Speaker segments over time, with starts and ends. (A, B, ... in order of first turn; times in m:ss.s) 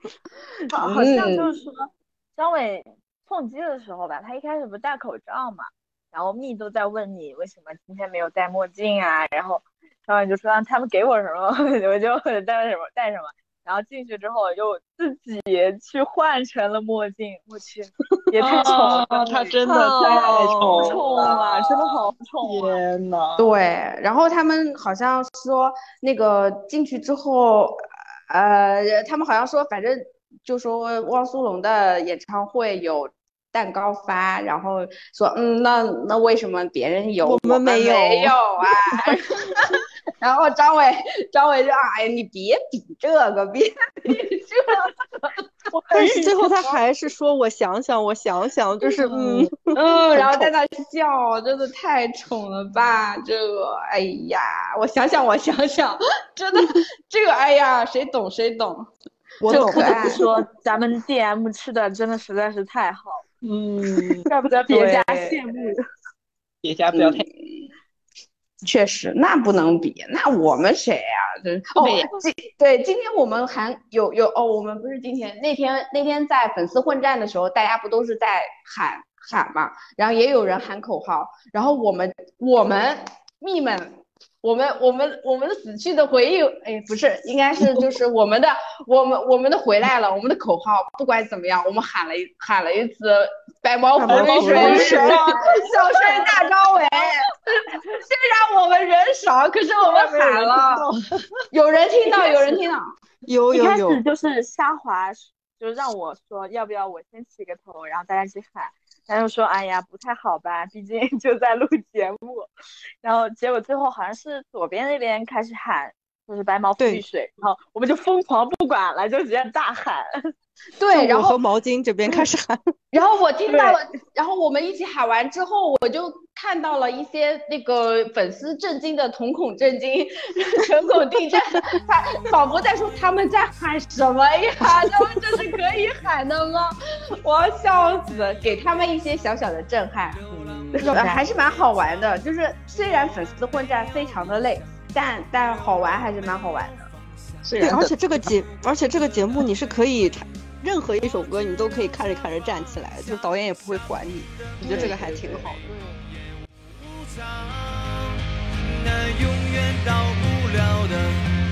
0:00.7-0:22.8 A
0:00.7-0:01.5 B
0:18.4-0:23.5 C
0:19.6-0:20.8 D
0:23.4-0:44.9 B
0:37.2-0:38.4 D
0:45.7-0:46.8 A
0:45.9-0:50.5 D
0:49.7-0:58.9 B
0:59.4-1:00.2 D
0:59.4-1:00.2 B
0:59.5-1:03.2 A
1:03.4-1:04.2 C
1:04.3-1:05.8 A
1:04.7-1:05.4 B
1:06.6-1:07.2 C
1:06.9-1:07.6 B
1:08.6-1:40.9 B
1:11.8-1:12.1 C
1:34.0-1:35.4 D
1:34.1-1:36.3 C
1:34.4-1:36.5 A
1:39.8-1:41.0 C
1:41.5-1:42.9 B
1:42.0-1:42.6 A
1:43.3-1:44.0 D
1:43.5-1:52.5 A
1:53.0-2:00.1 A
2:00.8-2:01.4 B
2:00.9-2:02.7 D
2:02.9-2:26.8 B
2:12.0-2:13.8 E
2:14.6-2:16.2 E
2:17.8-2:19.0 E
2:20.1-2:24.9 E
2:20.8-2:21.2 D
2:25.4-2:27.4 E
2:27.4-2:27.9 C
2:27.6-2:36.0 D
2:28.2-2:30.1 E
2:31.0-2:41.2 E
2:34.6-2:35.3 C